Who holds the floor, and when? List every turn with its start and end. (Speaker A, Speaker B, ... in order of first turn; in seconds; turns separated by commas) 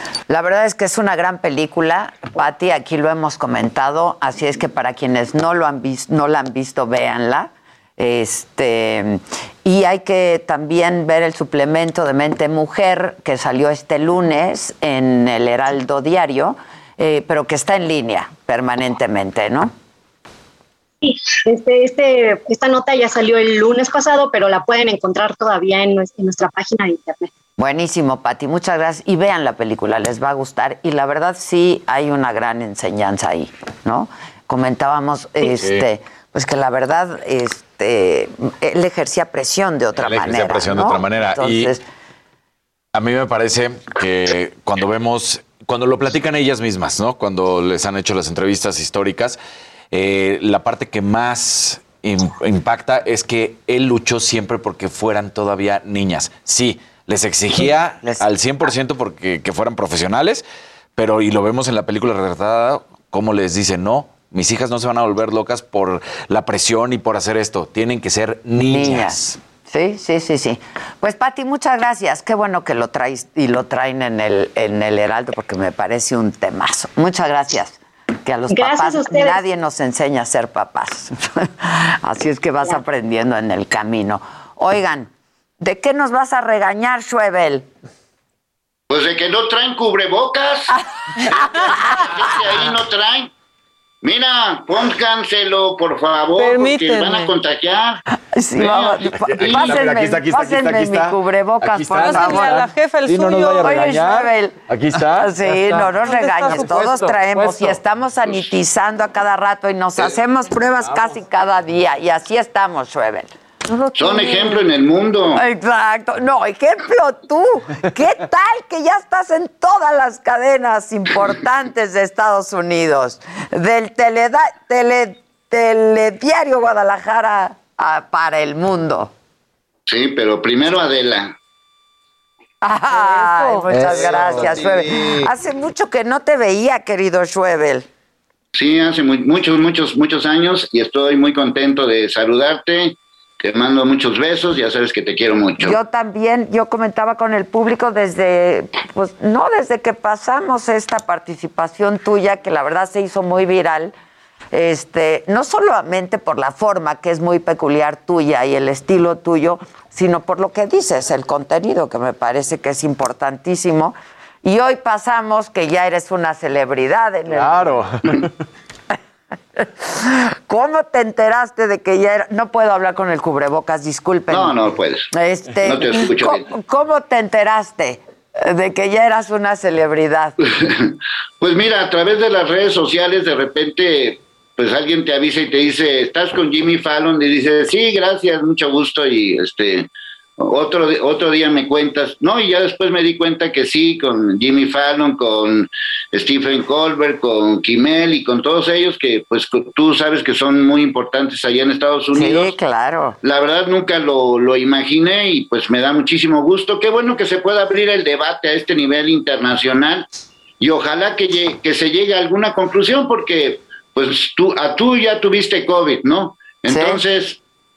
Speaker A: 0.3-19.7, Speaker B: 21.0-27.3, Speaker A: 27.6-41.8, Speaker C: 35.4-35.8, Speaker C: 40.0-41.7, Speaker C: 42.9-49.4, Speaker C: 49.9-60.4, Speaker A: 57.5-58.2, Speaker C: 61.0-69.3, Speaker A: 68.6-87.7, Speaker B: 78.5-79.4, Speaker D: 88.9-90.7, Speaker D: 91.3-93.3, Speaker D: 94.0-98.0, Speaker E: 96.3-97.3, Speaker A: 98.3-102.6, Speaker D: 98.5-99.7, Speaker C: 99.2-102.5, Speaker E: 101.9-103.9, Speaker C: 103.1-105.3, Speaker A: 103.6-113.3, Speaker E: 105.8-107.2, Speaker C: 107.4-107.7, Speaker D: 113.9-115.4, Speaker A: 115.3-129.1, Speaker D: 129.9-131.3, Speaker A: 132.6-137.9, Speaker E: 132.9-133.6, Speaker C: 133.8-134.4, Speaker D: 133.9-135.3, Speaker D: 138.5-145.8, Speaker A: 145.6-153.9, Speaker A: 154.5-167.7, Speaker C: 167.3-167.9, Speaker A: 169.6-174.6, Speaker D: 174.3-175.1, Speaker A: 175.1-180.3, Speaker D: 175.6-176.5, Speaker D: 180.6-202.5, Speaker A: 202.1-203.2, Speaker D: 203.2-210.1, Speaker D: 210.6-217.4, Speaker A: 216.7-217.0